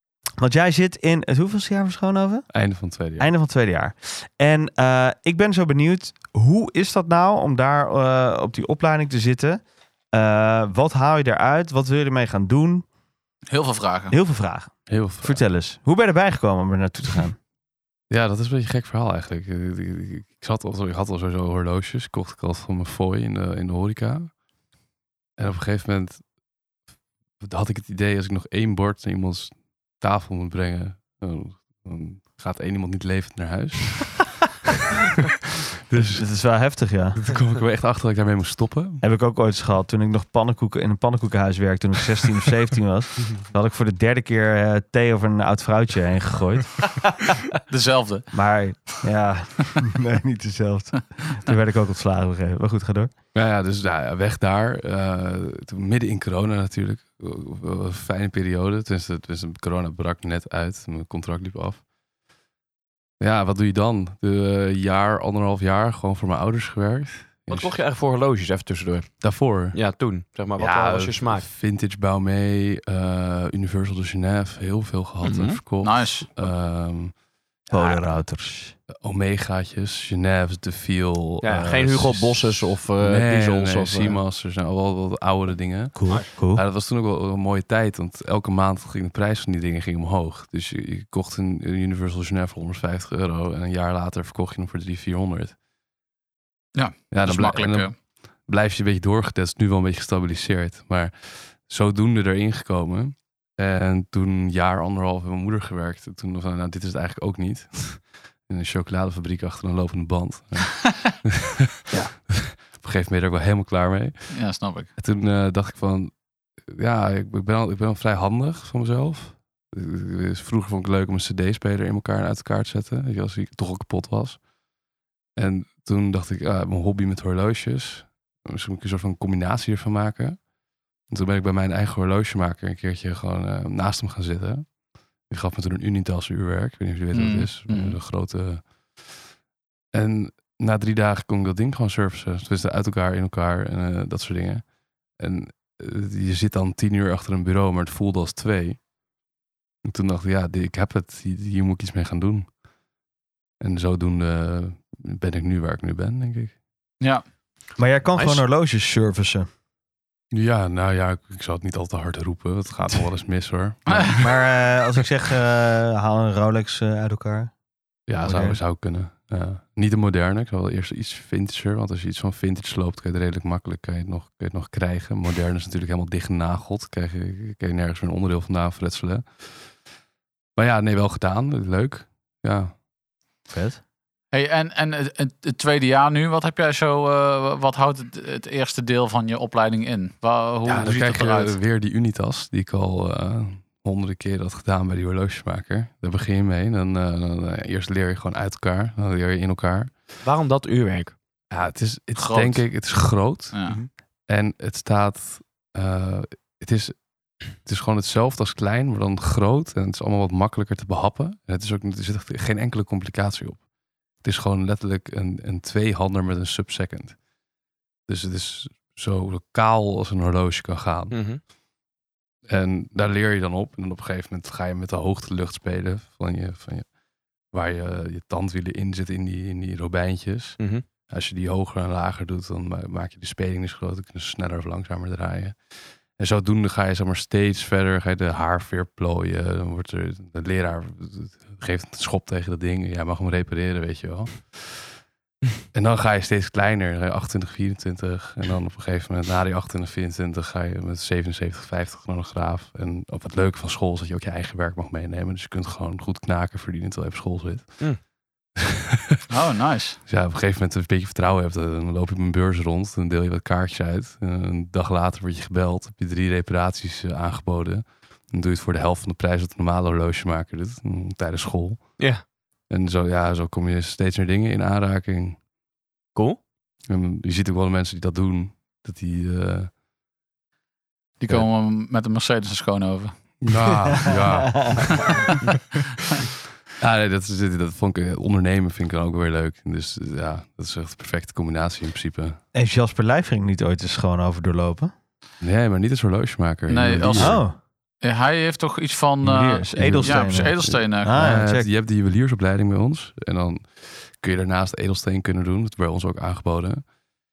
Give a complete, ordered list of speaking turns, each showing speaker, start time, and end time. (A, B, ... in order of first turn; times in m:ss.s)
0:00.4-0:02.5 A
0:02.5-0:03.3 B
0:03.2-0:09.6 A
0:10.1-0:12.8 A
0:13.5-0:14.1 C
0:14.1-0:17.4 A
0:14.9-0:15.4 B
0:18.1-0:24.3 B
0:25.4-0:26.2 B
0:27.4-0:34.5 B
0:35.9-0:36.2 B
0:36.1-0:37.2 A
0:37.1-0:39.0 B
0:39.0-0:46.9 A
0:47.7-0:48.2 C
0:48.3-0:53.1 A
0:53.3-1:01.8 B
1:03.2-1:07.7 B
1:07.5-1:11.4 D
1:09.2-1:09.8 B
1:10.6-1:17.2 B
1:15.2-1:15.6 D
1:15.8-1:16.3 C
1:17.7-1:18.7 A
1:18.9-1:35.5 B
1:21.4-1:24.2 D
1:25.9-1:26.6 A
1:36.7-1:37.9 C
1:37.1-1:37.9 B
1:38.4-1:51.5 B
1:52.2-1:54.4 B
1:54.3-1:54.9 C
1:55.0-2:04.4 B
2:05.4-2:10.4 B
2:11.1-2:19.2 B
2:17.1-2:18.0 C
2:19.9-2:28.8 B
2:29.8-2:32.5 B
2:33.6-2:36.6 B
2:37.8-2:39.5 A
2:38.1-2:38.4 D
2:40.3-2:44.3 B
2:44.1-2:47.5 A
2:48.1-2:59.7 B
2:48.2-2:48.6 A
3:00.6-3:02.7 B
3:03.5-3:03.8 A
3:04.3-3:11.6 C
3:10.7-3:20.0 B
3:20.2-3:21.2 D
3:21.5-3:23.6 B
3:22.2-3:22.7 C
3:23.5-3:23.8 C
3:24.3-3:27.0 B
3:27.5-3:33.6 B
3:34.2-3:37.2 B
3:38.1-3:41.3 B
3:41.1-3:41.4 D
3:42.5-3:46.9 B
3:47.5-4:04.9 B
3:50.6-3:50.8 D
4:05.7-4:17.9 B
4:19.3-4:20.0 C
4:20.0-4:32.0 B
4:32.7-4:35.4 B
4:36.9-4:39.7 B
4:41.2-4:43.5 C
4:43.4-4:45.1 B
4:44.6-4:44.9 A
4:44.9-4:45.2 C
4:46.8-4:52.4 B
4:52.5-4:54.9 A
4:55.4-4:57.4 B
4:56.7-4:57.5 C
4:57.1-4:57.6 A
4:58.0-5:01.2 C
4:59.2-5:01.7 A
4:59.7-5:06.8 B